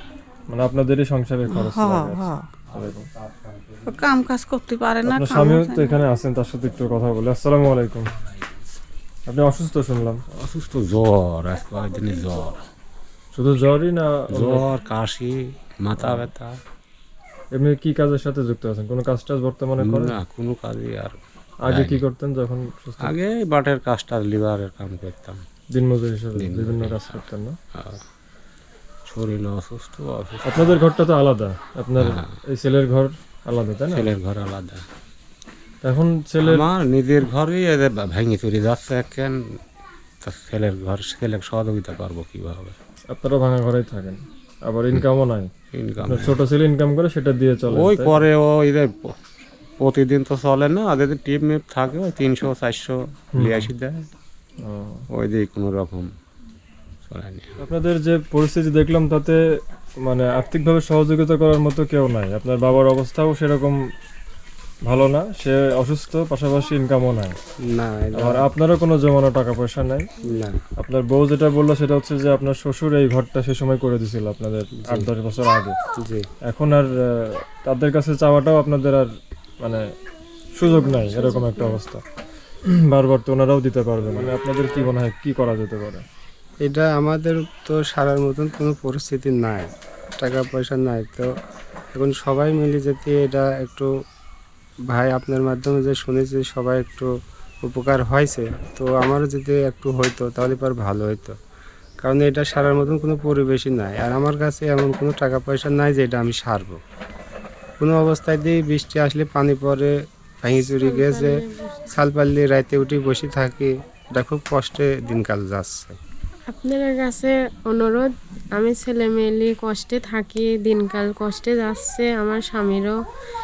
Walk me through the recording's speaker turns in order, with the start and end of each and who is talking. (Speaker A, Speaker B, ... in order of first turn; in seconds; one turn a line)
Speaker A: 0.5-3.1
Speaker B: 1.5-2.5
Speaker B: 3.9-6.0
Speaker A: 5.0-8.1
Speaker A: 9.3-10.2
Speaker C: 10.3-12.7
Speaker A: 13.3-14.7
Speaker C: 14.3-16.6
Speaker A: 16.0-16.3
Speaker A: 17.5-20.2
Speaker C: 19.9-21.2
Speaker A: 21.6-23.1
Speaker C: 21.7-22.0
Speaker C: 23.1-25.4
Speaker A: 25.7-27.6
Speaker C: 26.4-27.2
Speaker C: 27.7-28.0
Speaker C: 29.1-30.8
Speaker A: 30.4-34.1
Speaker C: 32.0-32.2
Speaker C: 33.9-34.9
Speaker A: 35.8-36.7
Speaker C: 36.4-39.4
Speaker C: 40.2-42.8
Speaker A: 43.1-45.5
Speaker C: 45.7-46.4
Speaker A: 46.0-48.3
Speaker C: 47.7-49.2
Speaker C: 49.8-54.1
Speaker A: 53.4-53.7
Speaker A: 54.6-55.0
Speaker C: 55.1-56.1
Speaker C: 57.1-57.6
Speaker A: 57.6-59.4
Speaker A: 60.0-63.8
Speaker A: 64.9-67.4
Speaker D: 67.6-68.5
Speaker A: 68.2-70.1
Speaker D: 70.2-70.6
Speaker A: 70.8-75.8
Speaker D: 74.8-75.1
Speaker D: 76.0-76.3
Speaker A: 76.5-79.1
Speaker A: 80.6-82.0
Speaker E: 80.9-81.8
Speaker A: 82.7-86.0
Speaker D: 86.6-91.3
Speaker D: 91.9-93.9
Speaker D: 94.9-97.1
Speaker D: 97.6-101.3
Speaker D: 102.0-106.8
Speaker D: 107.8-116.0
Speaker E: 110.8-111.9
Speaker E: 116.5-123.0